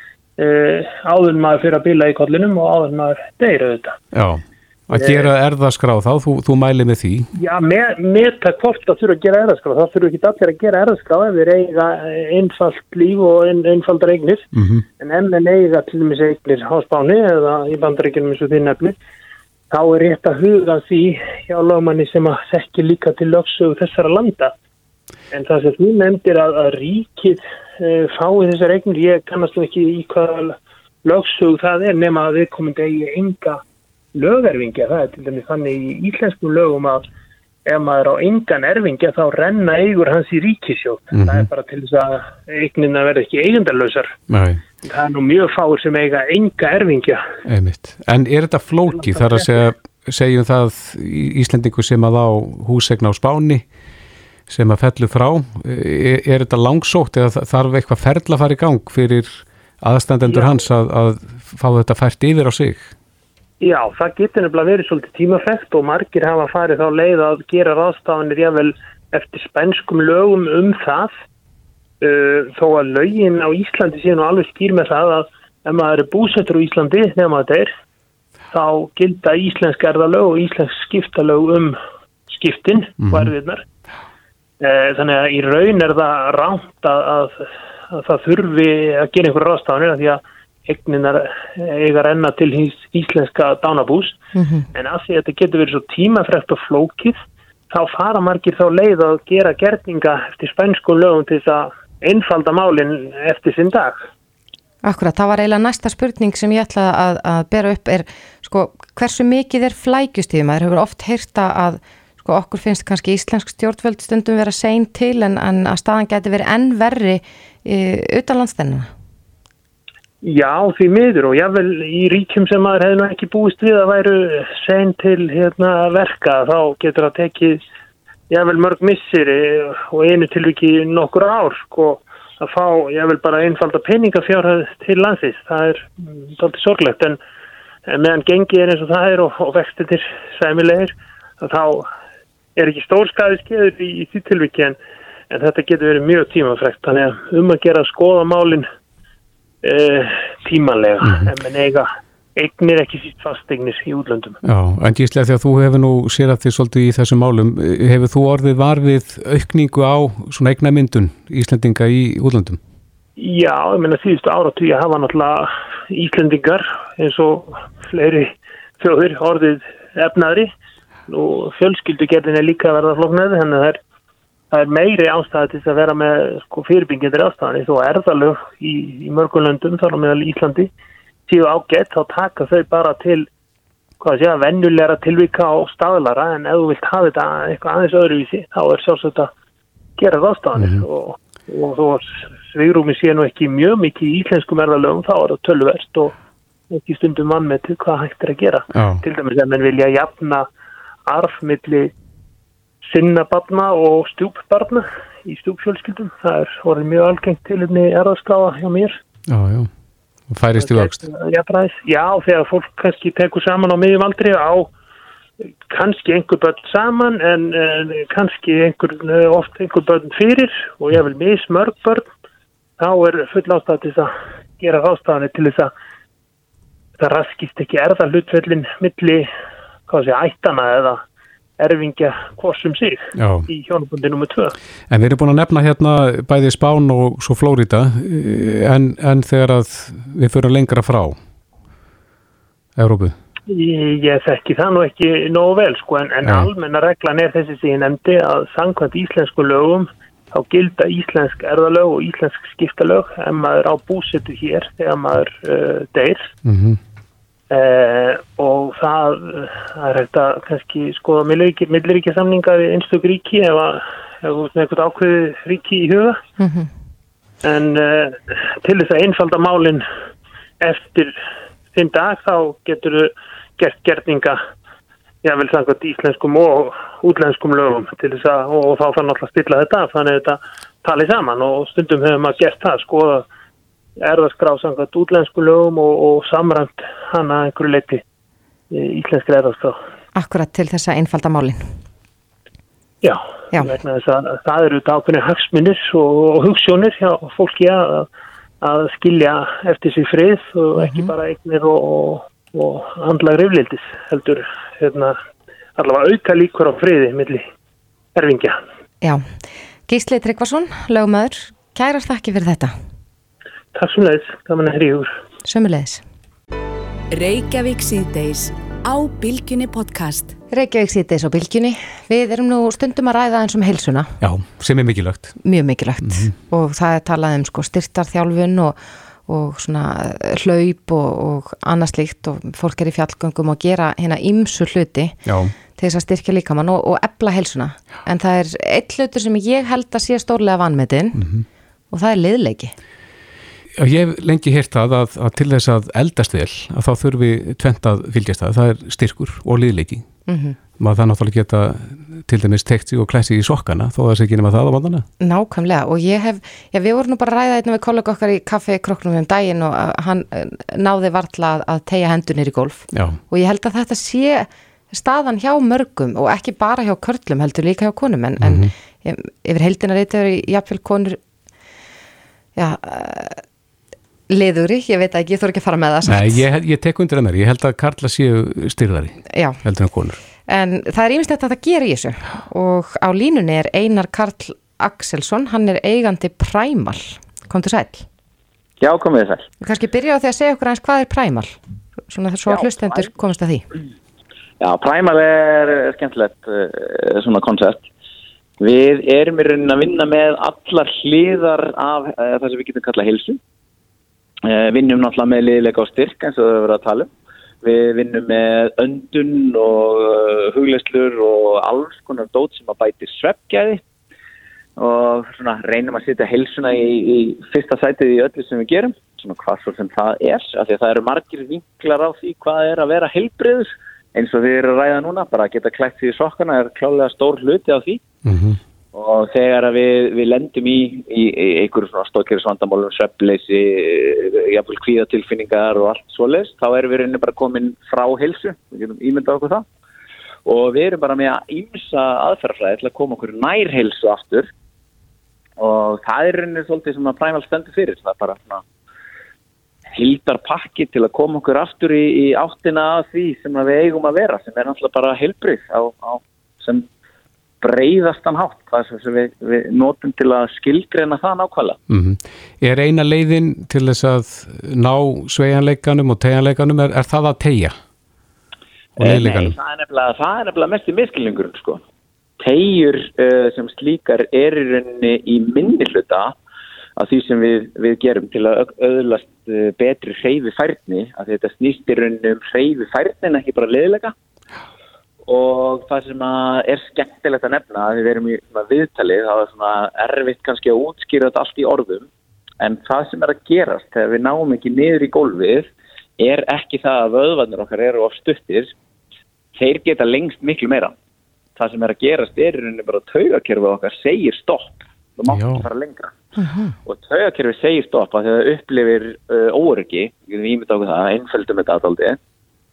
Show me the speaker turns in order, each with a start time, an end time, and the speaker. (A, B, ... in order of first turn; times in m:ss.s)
0:00.4-0:04.0 A
0:04.1-0:07.3 B
0:04.9-0:05.3 A
0:07.4-0:14.5 A
0:14.5-0:14.8 B
0:15.0-0:19.0 A
0:19.7-0:24.5 A
0:25.3-0:33.6 A
0:34.1-0:37.0 A
0:37.6-0:44.2 A
0:41.1-0:41.5 B
0:44.3-0:44.6 B
0:44.8-0:47.2 A
0:47.4-0:53.6 B
0:48.9-0:49.6 A
0:54.5-1:02.9 B
1:00.2-1:00.7 A
1:03.6-1:11.1 A
1:12.0-1:17.7 A
1:18.5-1:21.8 A
1:22.3-1:23.6 A
1:23.0-1:23.3 B
1:24.6-1:34.2 A
1:34.3-1:34.6 C
1:34.7-1:44.1 A
1:44.8-1:58.9 C
2:00.2-2:07.6 A
2:08.3-2:17.2 A
2:17.9-2:21.9 A
2:22.6-2:24.8 A
2:25.3-2:28.7 A
2:29.6-2:34.4 A
2:31.0-2:31.3 B
2:34.4-2:42.6 B
2:43.2-2:50.5 A
2:51.1-2:53.8 A
2:54.5-3:00.7 A
3:01.3-3:03.3 A
3:04.0-3:09.3 A
3:10.0-3:16.1 A
3:10.6-3:10.8 B
3:16.7-3:20.4 A
3:18.7-3:19.0 B
3:21.1-3:21.9 A
3:22.8-3:29.0 A
3:29.3-3:29.7 B
3:30.3-3:31.0 B
3:30.6-3:34.7 A
3:35.7-3:42.0 A
3:42.8-3:45.7 A
3:47.0-3:49.3 A
3:49.9-3:51.0 A
3:51.6-3:54.5 A
3:53.2-3:53.5 B
3:54.9-4:01.2 B
4:02.8-4:03.1 B
4:03.5-4:16.3 A
4:06.2-4:06.5 B
4:16.4-4:16.8 B
4:17.5-4:26.2 A
4:26.4-4:26.7 C
4:27.4-4:29.8 A
4:30.6-4:31.1 A
4:31.7-4:34.4 A
4:35.2-4:43.2 A
4:44.0-4:48.0 A
4:48.7-4:49.8 A
4:50.1-4:51.6 C
4:53.0-4:58.1 A
4:58.6-5:05.1 A
5:00.8-5:01.1 C
5:05.8-5:07.4 A
5:08.1-5:08.6 A
5:09.9-5:12.7 C
5:13.7-5:15.1 A
5:15.4-5:16.0 C
5:17.1-5:20.3 D
5:20.5-5:24.1 C
5:24.2-5:25.3 B
5:25.4-5:35.2 C
5:26.0-5:26.3 B
5:35.2-5:35.5 B
5:35.7-5:41.2 C
5:41.1-5:41.4 B
5:41.9-5:42.7 C
5:43.8-5:50.0 B
5:50.3-5:50.6 C
5:50.8-5:55.0 B
5:55.2-6:11.2 C
6:02.9-6:03.2 B
6:08.4-6:08.7 B
6:12.6-6:13.4 C
6:14.3-6:16.4 C
6:16.1-6:20.2 B
6:19.3-6:19.6 C
6:20.5-6:28.0 C
6:28.8-6:29.5 E
6:29.6-6:31.6 C
6:32.1-6:33.6 C
6:32.5-6:33.1 E
6:34.6-6:37.9 E
6:38.6-6:43.4 E
6:44.4-6:47.1 E
6:47.6-6:53.8 E
6:54.8-7:08.0 E
7:08.2-7:08.6 B
7:08.9-7:19.6 E
7:20.4-7:24.5 E
7:25.6-7:28.6 E
7:29.9-7:36.9 E
7:37.6-7:41.8 E
7:41.9-7:47.7 B
7:49.0-7:49.5 B
7:49.0-7:51.8 E
7:52.4-7:56.3 E
7:57.0-8:04.1 E
8:05.2-8:12.1 E
8:12.6-8:18.7 E
8:19.5-8:20.9 E
8:21.6-8:26.1 E
8:25.3-8:25.6 B
8:26.4-8:26.7 C
8:26.8-8:32.2 E